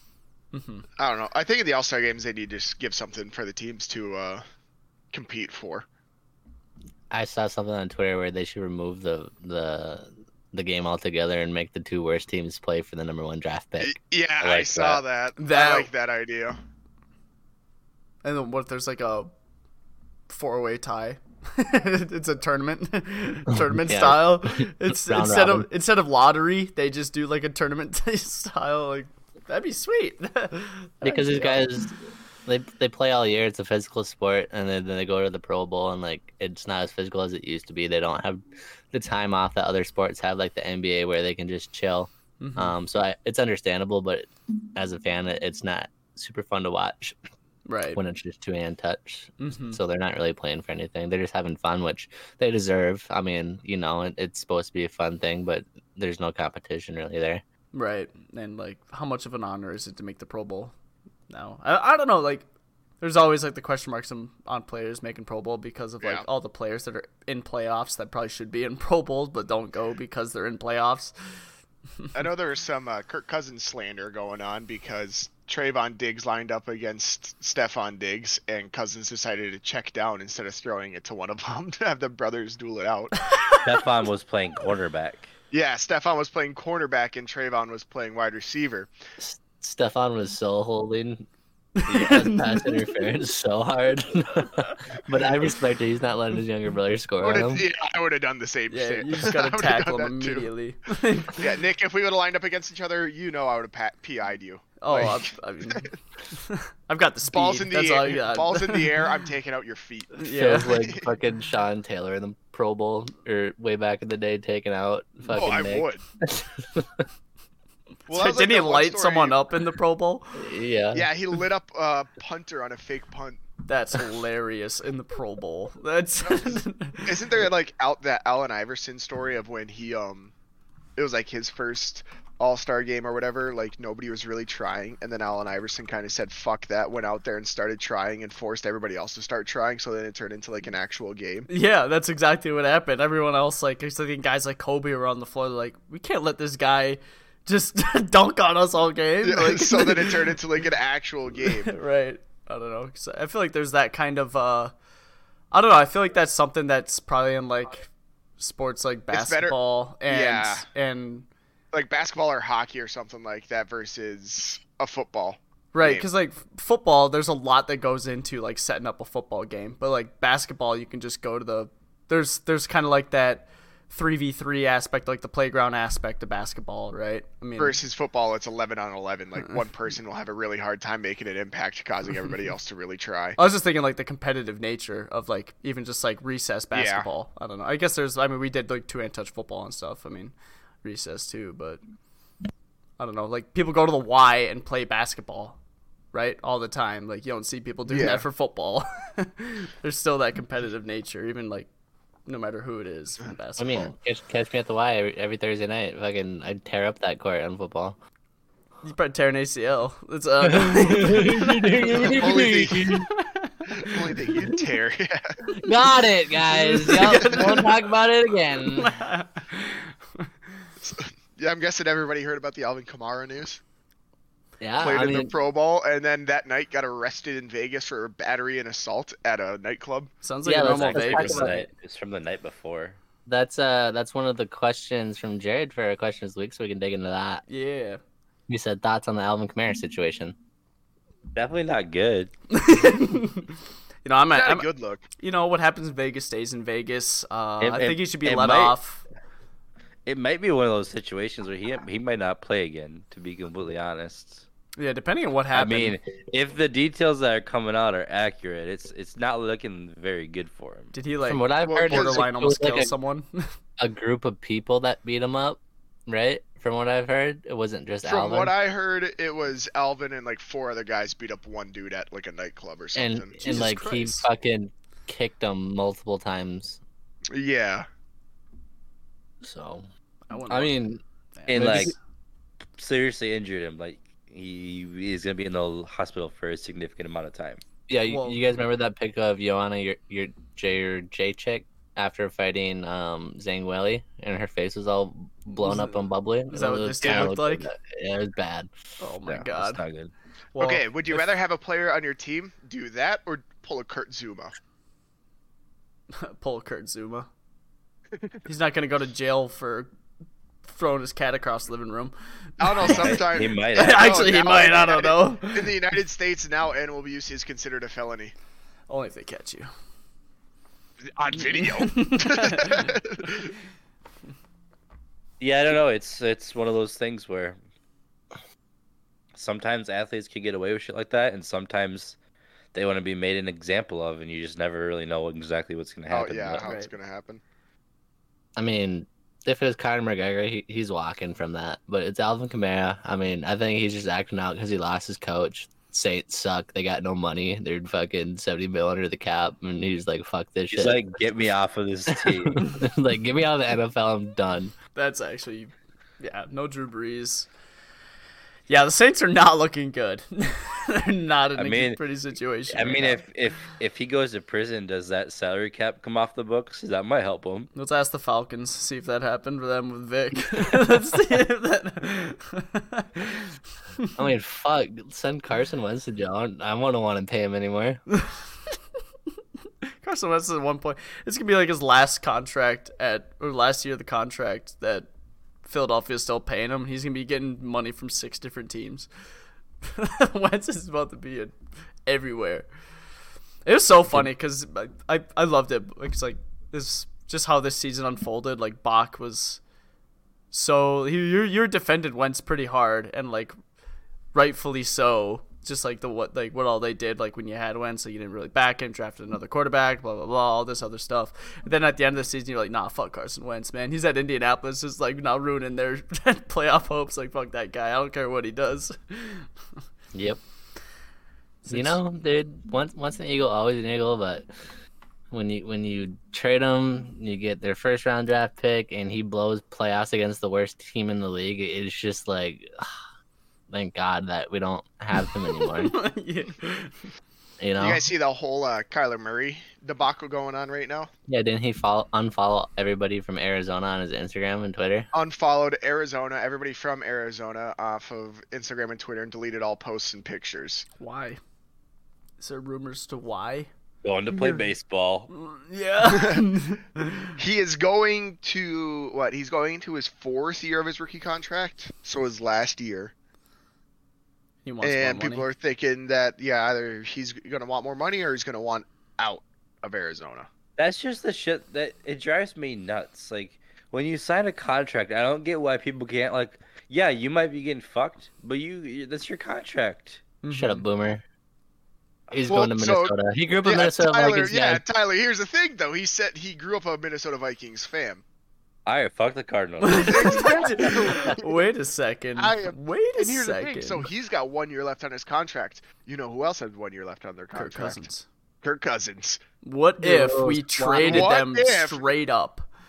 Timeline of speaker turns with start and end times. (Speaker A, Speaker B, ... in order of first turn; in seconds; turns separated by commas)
Speaker A: 0.5-0.9, Speaker B: 1.0-4.4, Speaker B: 5.1-5.9, Speaker C: 7.1-14.0, Speaker B: 13.8-16.6, Speaker D: 14.4-15.0, Speaker A: 15.4-15.9, Speaker A: 18.2-19.3, Speaker A: 20.3-31.7, Speaker C: 23.5-25.7, Speaker C: 31.0-31.9, Speaker C: 32.5-47.2, Speaker A: 42.4-42.8, Speaker A: 47.7-48.0, Speaker C: 48.0-57.4, Speaker A: 49.4-49.8, Speaker A: 57.7-60.7, Speaker A: 61.3-62.5, Speaker A: 63.0-71.1, Speaker B: 72.1-83.3, Speaker A: 83.3-83.6, Speaker D: 83.6-85.3, Speaker B: 85.5-88.9, Speaker C: 89.2-91.3, Speaker A: 91.8-93.0, Speaker C: 91.9-97.6, Speaker B: 97.2-100.5, Speaker A: 98.7-101.4, Speaker B: 101.3-105.9, Speaker A: 104.8-109.0, Speaker B: 107.3-110.2, Speaker A: 110.2-110.8, Speaker C: 110.2-117.0, Speaker B: 110.7-111.1, Speaker B: 115.3-116.0, Speaker B: 118.1-119.4, Speaker A: 118.1-120.4, Speaker C: 120.3-121.1, Speaker B: 120.9-123.4, Speaker A: 123.7-127.1, Speaker B: 126.3-130.3, Speaker B: 131.0-141.5, Speaker A: 141.5-150.2, Speaker B: 149.2-151.8, Speaker A: 151.5-154.7, Speaker A: 155.5-157.9, Speaker A: 158.4-161.3, Speaker B: 159.1-160.7, Speaker B: 161.7-166.1, Speaker A: 165.7-177.8, Speaker B: 177.6-183.4, Speaker A: 183.4-191.8, Speaker B: 186.7-187.1, Speaker A: 193.0-195.6, Speaker A: 196.1-201.7, Speaker B: 197.9-198.3, Speaker A: 202.3-203.9, Speaker C: 203.6-208.0, Speaker A: 208.8-213.8, Speaker C: 210.4-213.1, Speaker B: 212.1-213.0, Speaker B: 213.7-215.4, Speaker C: 215.6-218.9, Speaker A: 216.5-217.7, Speaker A: 218.7-220.3, Speaker B: 220.8-223.6, Speaker C: 224.6-225.3, Speaker B: 224.8-230.1, Speaker A: 230.2-231.7, Speaker C: 230.5-231.5, Speaker D: 230.7-233.0, Speaker C: 233.3-237.4, Speaker A: 237.5-238.0, Speaker C: 238.5-240.4, Speaker D: 241.3-242.3, Speaker A: 242.5-243.5, Speaker A: 244.1-244.7, Speaker B: 244.3-245.0, Speaker A: 245.2-249.0, Speaker D: 247.6-248.8, Speaker D: 250.1-254.4, Speaker A: 254.8-256.0, Speaker D: 255.5-260.9, Speaker A: 260.9-263.5, Speaker C: 261.3-262.9, Speaker B: 261.7-262.2, Speaker C: 263.8-268.5, Speaker B: 268.0-274.0, Speaker C: 272.9-276.8, Speaker A: 273.4-274.2, Speaker B: 277.3-277.9, Speaker C: 279.4-279.9, Speaker A: 280.3-280.8, Speaker C: 280.5-281.9, Speaker A: 281.4-281.9, Speaker D: 281.5-281.9, Speaker D: 282.8-287.6, Speaker C: 287.9-298.7, Speaker A: 288.1-288.4, Speaker A: 295.6-296.0, Speaker A: 296.5-297.7, Speaker B: 297.0-297.3, Speaker A: 299.0-299.8, Speaker D: 299.3-300.1, Speaker A: 300.5-301.3, Speaker B: 300.6-304.5, Speaker A: 306.2-307.3, Speaker A: 308.5-309.9, Speaker A: 310.7-313.2, Speaker B: 312.6-318.3, Speaker D: 312.9-314.3, Speaker A: 313.7-315.7, Speaker A: 318.9-319.7, Speaker B: 321.1-323.5, Speaker A: 321.4-322.9, Speaker D: 325.4-327.6, Speaker D: 329.4-332.2, Speaker D: 332.7-336.6, Speaker B: 336.1-337.4, Speaker A: 336.6-336.9, Speaker C: 338.6-351.0, Speaker D: 350.7-352.7, Speaker C: 352.1-354.7, Speaker A: 354.9-357.5, Speaker A: 358.7-363.2, Speaker D: 361.6-362.0, Speaker D: 362.7-367.7, Speaker A: 367.8-373.5, Speaker C: 374.2-378.0, Speaker A: 380.0-385.1, Speaker A: 385.6-389.1, Speaker A: 389.8-391.5, Speaker A: 392.1-392.7, Speaker A: 393.7-399.6, Speaker A: 400.5-403.6, Speaker A: 404.3-419.5, Speaker C: 420.1-420.4, Speaker A: 421.6-422.0, Speaker C: 421.7-424.5, Speaker C: 425.3-432.9, Speaker C: 433.7-435.9, Speaker A: 435.5-437.0, Speaker C: 437.6-438.1, Speaker B: 437.8-441.1, Speaker C: 441.3-445.1, Speaker B: 445.1-450.9, Speaker A: 451.0-451.4, Speaker A: 452.4-453.7, Speaker D: 454.0-455.3, Speaker A: 455.3-457.3, Speaker B: 456.0-456.5, Speaker B: 457.4-463.1, Speaker A: 464.7-465.5, Speaker B: 464.8-470.5, Speaker D: 470.8-480.2, Speaker A: 480.4-480.8, Speaker C: 480.5-481.2, Speaker C: 482.3-484.8, Speaker B: 482.5-488.2, Speaker D: 488.9-490.6, Speaker A: 489.8-494.1, Speaker B: 490.0-491.6, Speaker B: 492.4-498.1, Speaker A: 497.6-498.3, Speaker B: 498.6-499.4, Speaker A: 499.6-502.7, Speaker C: 500.0-501.3, Speaker B: 501.0-502.1